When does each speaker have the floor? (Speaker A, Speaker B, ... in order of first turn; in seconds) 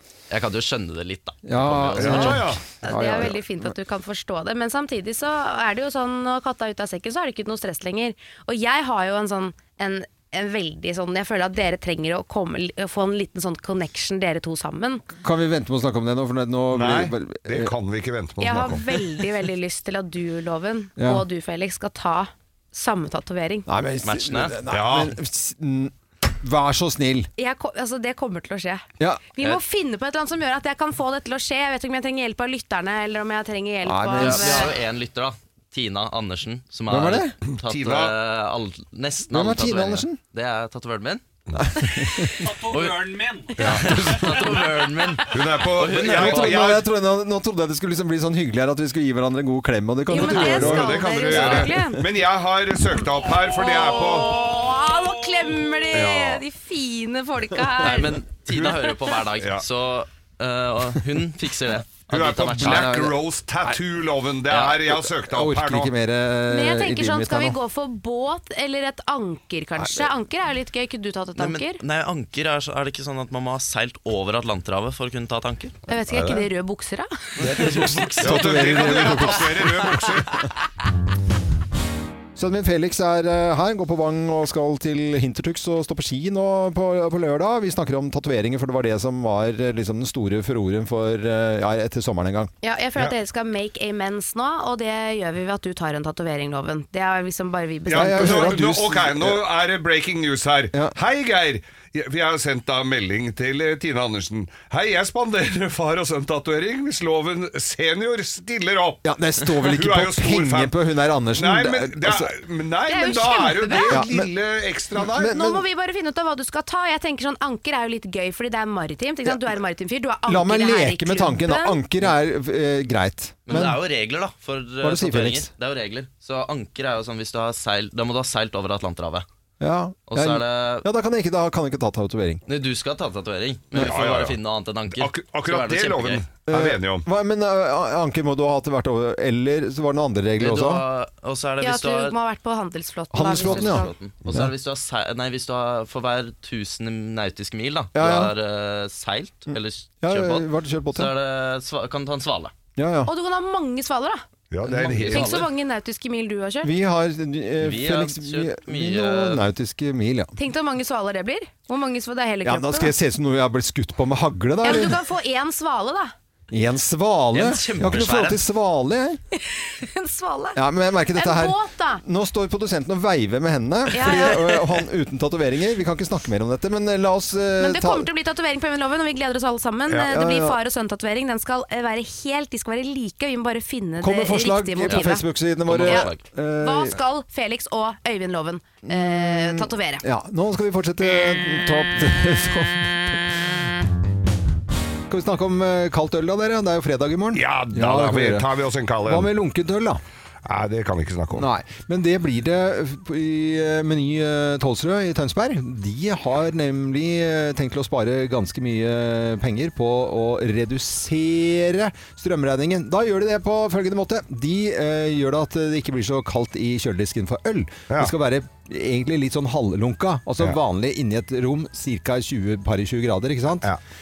Speaker A: 0.3-2.4, 24.0-24.6, 34.1-41.2, 42.1-46.7, 51.2-51.7, 57.8-63.1, 64.5-64.8, 71.4-75.8, 77.5-78.4, 123.5-129.2, 130.1-130.8, 132.5-136.3, 140.4-142.2, 143.3-152.5, 154.7-155.4, 157.6-159.4, 167.3-168.4, 184.9-185.1, 185.7-186.2
Speaker B: 1.4-3.7, 15.2-17.7, 21.0-21.2, 23.7-27.3, 29.0-29.3, 33.8-34.7, 36.9-37.4, 39.3-40.2, 41.6-42.4, 43.6-44.5, 45.8-51.1, 62.6-63.1, 65.1-67.6, 69.8-70.1, 77.4-80.0, 82.4-92.5, 97.9-99.4, 109.0-112.3, 113.9-114.3, 115.0-115.6, 120.3-123.8, 124.8-125.5, 129.6-132.4, 136.5-140.8, 143.1-144.5, 147.9-148.3, 149.5-151.1, 152.8-153.1, 156.6-160.3, 162.4-165.0, 166.5-169.2, 170.6-178.1, 179.9-180.6, 184.0-187.0, 188.9-193.6, 195.1-198.5, 199.1-200.0, 201.3-223.7
Speaker C: 2.0-2.6, 16.7-18.8, 24.7-25.2, 37.5-38.1, 43.6-44.0, 45.3-46.9, 50.2-54.4, 55.9-56.4, 58.5-58.8, 59.4-59.6, 62.1-65.9, 76.1-76.4, 78.2-80.3, 97.9-109.0, 109.6-110.7, 111.3-115.3, 133.7-134.4, 134.9-137.1, 154.5-155.5, 197.3-199.3, 200.4-201.5
Speaker D: 2.8-15.0, 18.4-23.7, 27.4-34.7, 50.1-52.0, 53.5-58.2, 66.5-71.8, 75.9-77.1, 92.6-98.6, 112.9-114.0, 115.2-121.8, 141.6-143.9, 153.1-154.2, 155.0-156.7, 160.4-162.9, 164.6-166.1, 169.5-170.6, 171.2-172.0, 173.9-174.5, 177.6-185.3, 185.8-190.0